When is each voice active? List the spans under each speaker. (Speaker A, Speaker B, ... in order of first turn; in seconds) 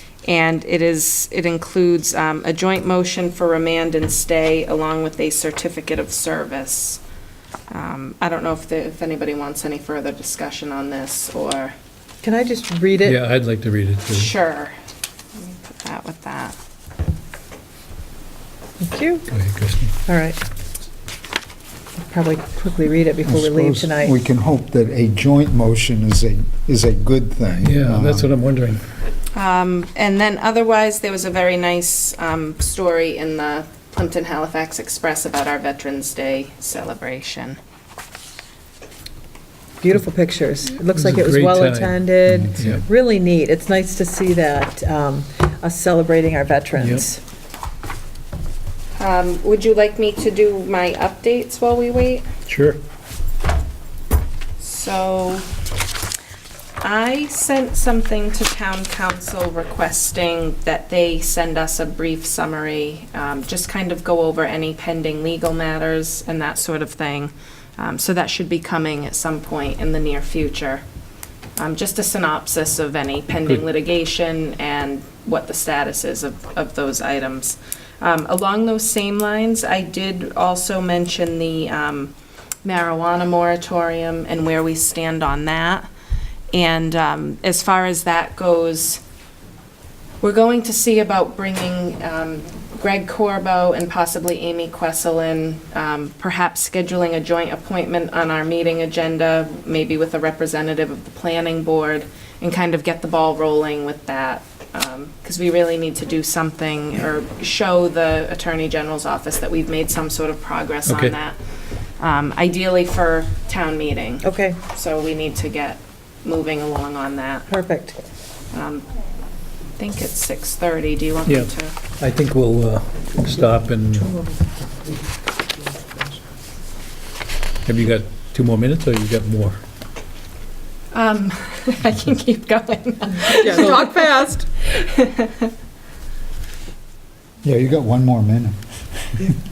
Speaker A: 0.2-7.0, 7.7-11.7, 14.1-14.7, 15.3-16.6, 29.3-37.6, 49.0-52.2, 54.6-55.5, 56.8-70.8, 71.5-82.1, 82.6-85.9, 86.5-89.0, 90.2-111.4, 112.0-117.5, 118.5-118.8, 119.8-121.7, 130.9-135.5
Speaker B: 12.2-13.2, 18.8-19.2, 20.0-20.4, 22.0-24.1, 39.8-47.2, 114.2-114.6, 117.5-118.0, 133.4-134.4
Speaker C: 13.0-14.3, 19.3-19.9, 27.6-28.8, 40.9-42.8, 46.8-47.0, 52.5-52.8, 110.8-111.2, 121.2-124.1, 127.6-129.6
Speaker D: 23.2-28.3, 137.4-138.6